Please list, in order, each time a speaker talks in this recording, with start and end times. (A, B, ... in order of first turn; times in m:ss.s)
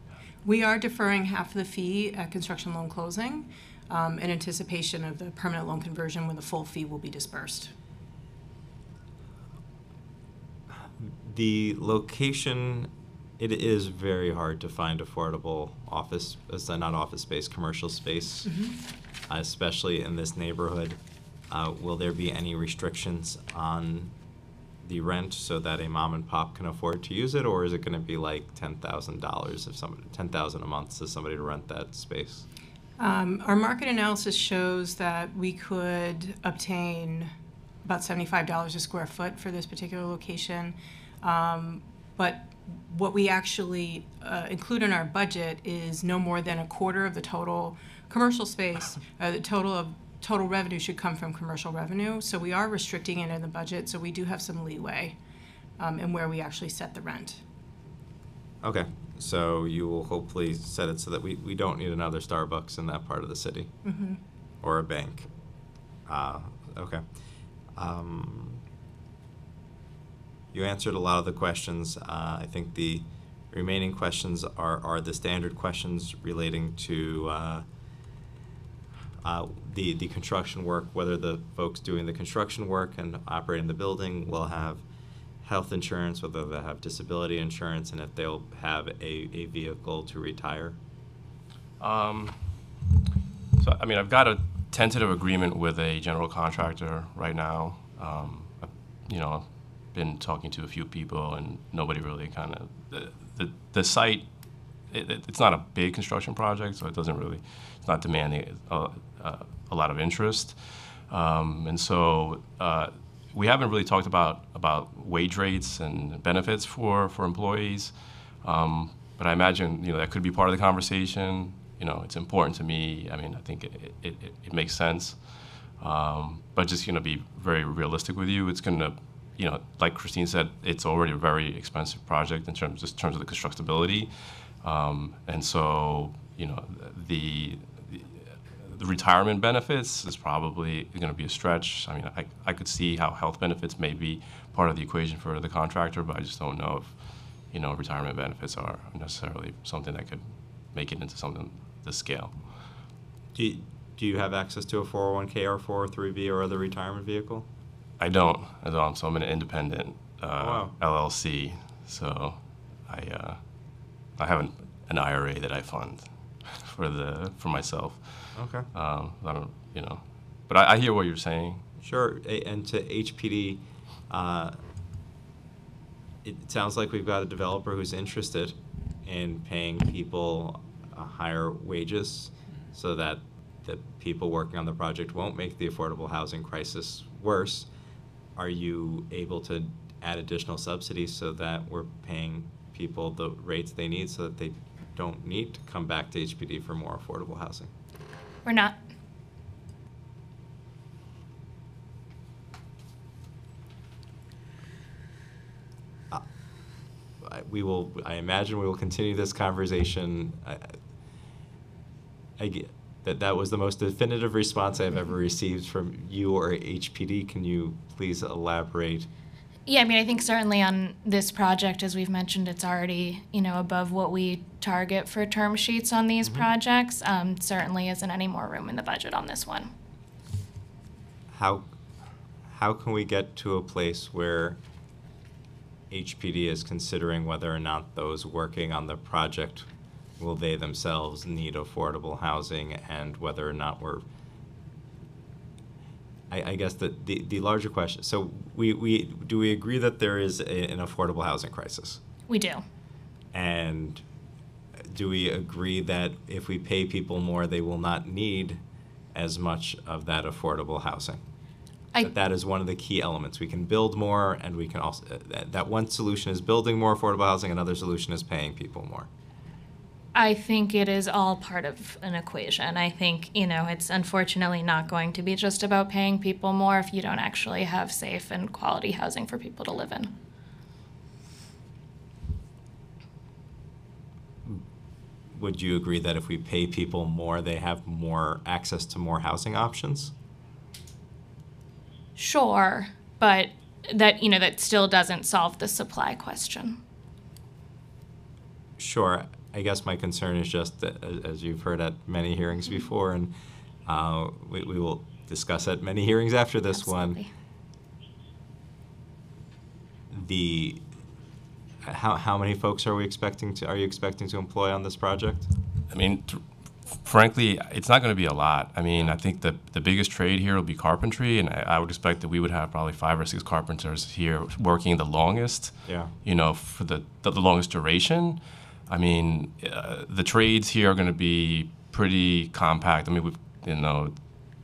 0:00.4-0:07.7 A
0:11.0-0:18.5 B
0:18.4-0:18.7 A
0:19.3-0:21.0 B
0:21.5-0:24.1 B
0:24.8-0:32.5 B
0:33.0-0:37.3 A
0:37.8-0:55.2 A
0:55.8-0:57.4 A
0:58.6-1:03.7 B
1:03.8-1:04.2 A
1:04.6-1:05.3 B
1:06.0-1:07.0 B
1:07.8-1:08.6 B
1:10.5-1:17.6 B
1:19.2-1:24.8 B
1:25.4-1:30.8 B
1:31.8-1:32.4 C
1:33.6-1:44.2 C
1:44.9-1:50.6 C
1:51.1-1:57.9 C
1:58.4-2:05.2 C
2:05.8-2:14.1 C
2:14.6-2:27.0 C
2:27.5-2:32.4 C
2:33.3-2:37.4 B
2:38.0-2:43.4 C
2:40.4-2:40.7 B
2:44.2-2:51.6 C
2:48.3-2:48.7 B
2:51.8-2:54.6 B
2:56.2-3:07.7 B
3:08.4-3:17.7 B
3:18.4-3:18.8 D
3:27.2-3:30.7 B
3:32.4-3:39.1 B
3:39.7-3:49.7 D
3:46.2-3:46.5 B
3:51.3-3:51.6 B
3:52.5-3:54.6 B
3:55.9-3:59.7 B
4:00.2-4:04.0 B
4:06.3-4:12.0 B
4:12.3-4:12.6 D
4:13.3-4:14.0 B
4:14.9-4:18.6 B
4:19.1-4:21.2 B
4:22.0-4:29.1 B
4:30.1-4:40.1 D
4:45.3-4:50.1 B
4:52.2-4:56.8 D
4:58.8-5:03.3 B
5:03.8-5:07.2 B
5:06.7-5:07.3 D
5:10.1-5:10.8 B
5:11.8-5:15.5 B
5:15.9-5:34.2 C
5:25.8-5:26.1 B